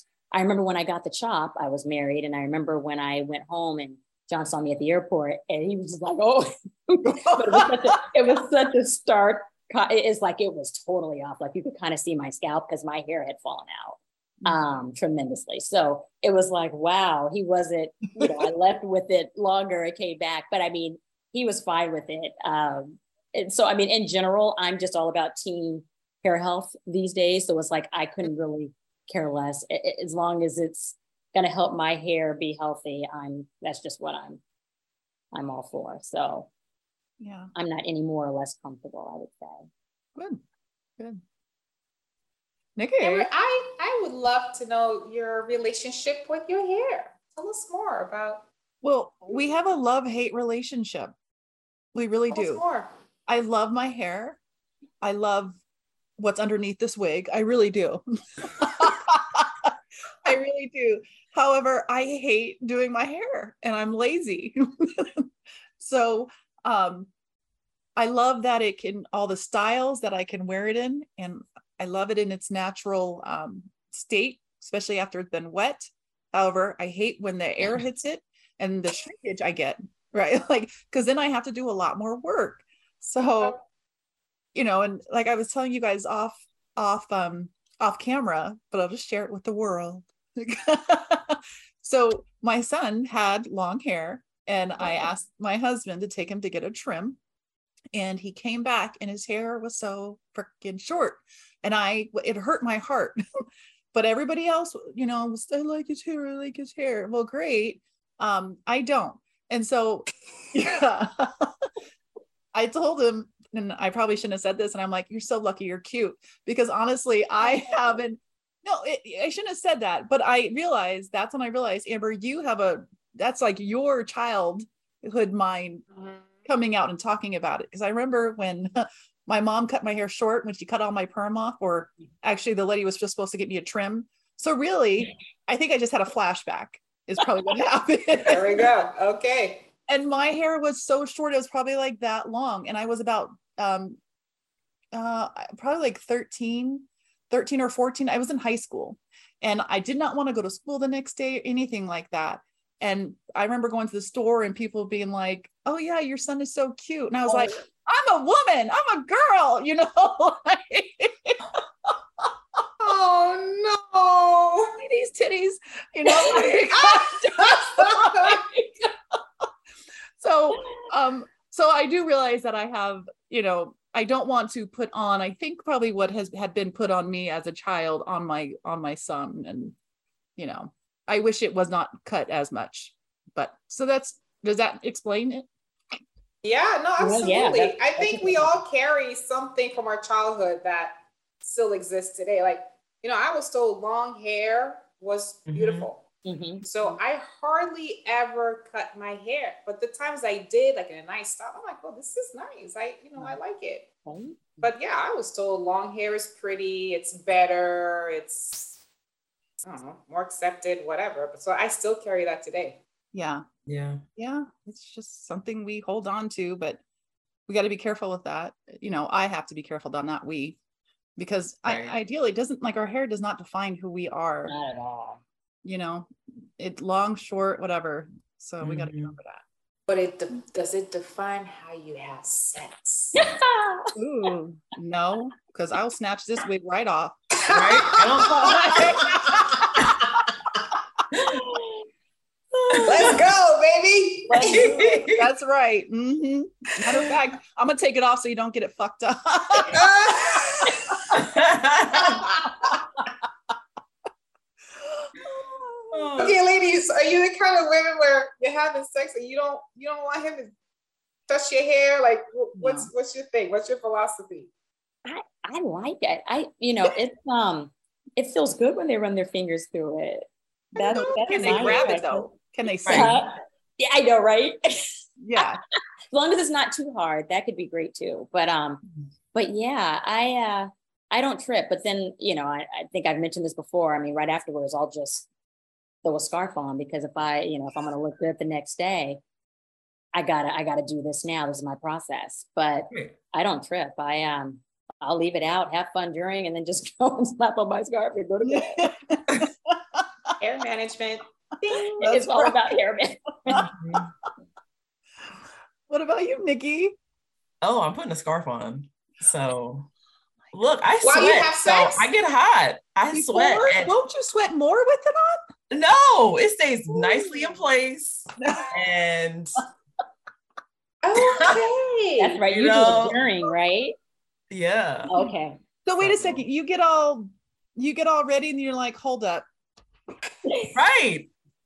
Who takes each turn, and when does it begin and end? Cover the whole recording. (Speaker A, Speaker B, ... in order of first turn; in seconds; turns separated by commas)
Speaker A: 0.3-34.4, Speaker B: 7.0-8.0, Speaker A: 35.3-36.5, Speaker B: 37.2-37.5, Speaker A: 37.5-39.7, Speaker B: 40.2-40.4, Speaker B: 42.8-43.3, Speaker C: 43.0-48.5, Speaker B: 48.8-51.1, Speaker B: 51.9-52.6, Speaker C: 52.3-52.9, Speaker B: 53.3-54.4, Speaker B: 55.0-55.6, Speaker B: 56.2-59.7, Speaker B: 60.2-67.1, Speaker B: 68.0-83.6, Speaker B: 84.5-97.2, Speaker B: 97.9-103.2, Speaker B: 103.9-111.5, Speaker B: 112.5-125.9, Speaker C: 125.9-126.4, Speaker B: 126.5-138.7, Speaker C: 138.2-139.7, Speaker B: 139.9-144.0, Speaker B: 144.9-162.3, Speaker C: 162.8-164.8, Speaker B: 164.8-168.4, Speaker C: 166.2-168.5, Speaker B: 169.1-169.5, Speaker B: 170.2-179.8, Speaker B: 180.4-185.5, Speaker C: 186.4-196.0, Speaker A: 187.0-188.6, Speaker D: 195.5-195.9, Speaker A: 196.2-196.7, Speaker C: 196.6-203.9, Speaker A: 204.1-204.5, Speaker C: 204.6-208.8, Speaker C: 209.6-212.8, Speaker B: 213.1-213.4, Speaker D: 213.7-214.0, Speaker B: 214.2-216.8, Speaker B: 217.5-220.6, Speaker B: 221.2-224.5, Speaker D: 221.7-222.0, Speaker A: 224.5-225.2, Speaker B: 225.6-229.4, Speaker D: 228.6-229.2, Speaker C: 229.9-233.2, Speaker A: 233.2-234.0, Speaker B: 234.0-237.2, Speaker C: 237.4-240.6, Speaker D: 237.5-239.2, Speaker B: 238.3-239.9, Speaker A: 241.2-241.8, Speaker D: 242.7-243.2, Speaker C: 242.8-244.9, Speaker B: 244.3-249.8, Speaker D: 244.4-245.3, Speaker C: 246.9-247.2, Speaker C: 249.6-251.2, Speaker B: 250.7-251.2, Speaker D: 251.1-252.3, Speaker C: 251.9-252.8, Speaker B: 254.8-256.1, Speaker D: 255.9-256.4, Speaker C: 256.2-260.5, Speaker C: 261.3-264.5, Speaker B: 262.6-262.9, Speaker A: 265.1-272.3, Speaker B: 270.8-273.2, Speaker D: 271.4-271.7, Speaker D: 272.8-273.2, Speaker A: 272.9-275.5, Speaker B: 275.2-275.6, Speaker A: 276.1-285.3, Speaker A: 286.0-289.2, Speaker A: 290.1-298.9, Speaker B: 298.4-300.3, Speaker C: 300.4-302.0, Speaker B: 301.7-302.8, Speaker A: 302.0-303.7, Speaker D: 303.5-304.1, Speaker B: 305.9-306.9, Speaker D: 307.6-309.9, Speaker D: 310.5-314.0, Speaker C: 311.0-312.1, Speaker B: 313.1-315.4, Speaker D: 315.7-319.6, Speaker B: 318.4-318.7, Speaker C: 321.0-322.4, Speaker D: 321.2-321.7, Speaker A: 322.2-324.0, Speaker D: 322.5-323.2, Speaker D: 324.5-325.1, Speaker A: 325.1-325.6, Speaker B: 325.9-329.5, Speaker D: 326.0-326.4, Speaker A: 330.4-330.8, Speaker D: 330.7-331.3